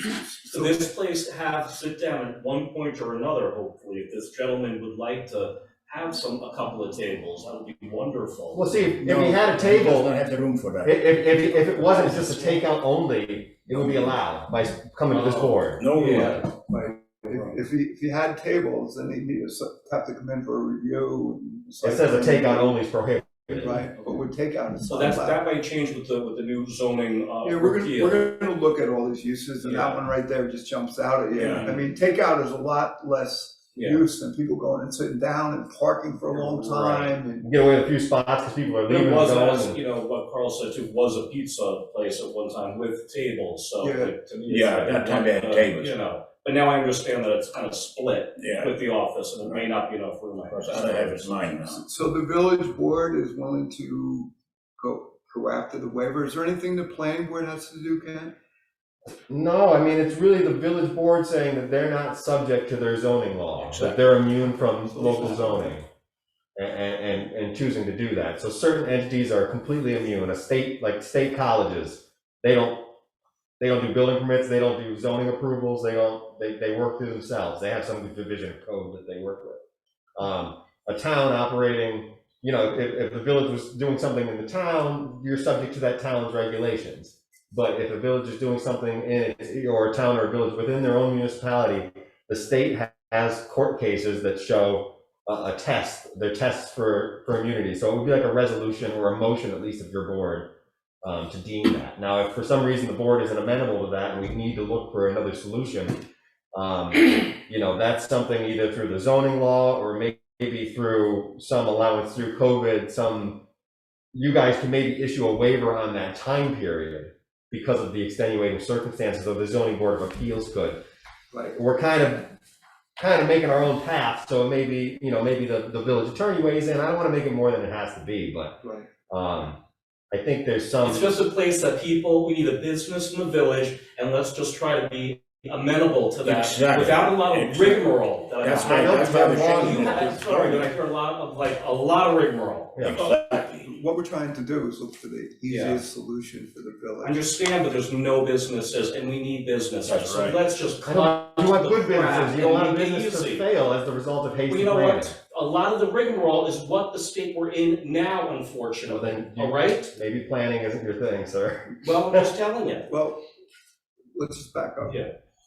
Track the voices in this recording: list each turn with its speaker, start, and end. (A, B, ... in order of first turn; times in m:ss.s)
0:00.4-0:00.8 A
0:00.5-0:08.9 B
0:08.5-0:10.1 C
0:09.0-0:11.0 D
0:10.8-0:16.3 C
0:13.7-0:14.2 D
0:15.1-0:16.4 B
0:15.8-0:16.4 D
0:16.1-0:22.7 A
0:21.8-0:23.8 C
0:23.6-0:25.4 A
0:23.6-0:24.2 B
0:24.8-0:28.3 B
0:27.4-0:37.5 A
0:29.6-0:30.0 B
0:31.3-0:31.7 D
0:31.3-0:31.8 B
0:33.7-0:34.0 B
0:36.3-0:37.2 B
0:37.4-0:39.8 C
0:38.9-0:51.3 B
0:43.8-0:44.1 A
0:44.5-0:45.9 D
0:48.4-0:48.7 D
0:50.4-0:51.8 D
0:51.7-0:58.3 A
0:59.3-1:05.9 C
1:03.6-1:04.0 D
1:04.8-1:05.8 A
1:06.6-1:12.9 C
1:13.6-1:19.6 C
1:20.2-1:46.0 C
1:46.5-1:53.4 C
1:54.1-2:00.8 C
2:01.3-2:01.6 A
2:01.5-2:02.4 C
2:03.0-2:08.6 C
2:08.6-2:08.9 A
2:09.1-2:09.6 C
2:10.1-2:11.2 C
2:10.8-2:23.0 B
2:16.2-2:17.8 D
2:18.4-2:20.6 D
2:18.5-2:20.4 C
2:22.8-2:23.0 C
2:22.8-2:23.7 D
2:23.6-2:27.2 A
2:25.5-2:25.8 B
2:27.0-2:33.4 B
2:29.8-2:30.4 D
2:30.8-2:35.1 C
2:34.5-2:39.9 B
2:38.9-2:42.2 C
2:41.8-2:42.9 B
2:42.9-2:43.2 A
2:44.1-2:45.0 A
2:44.8-2:45.1 B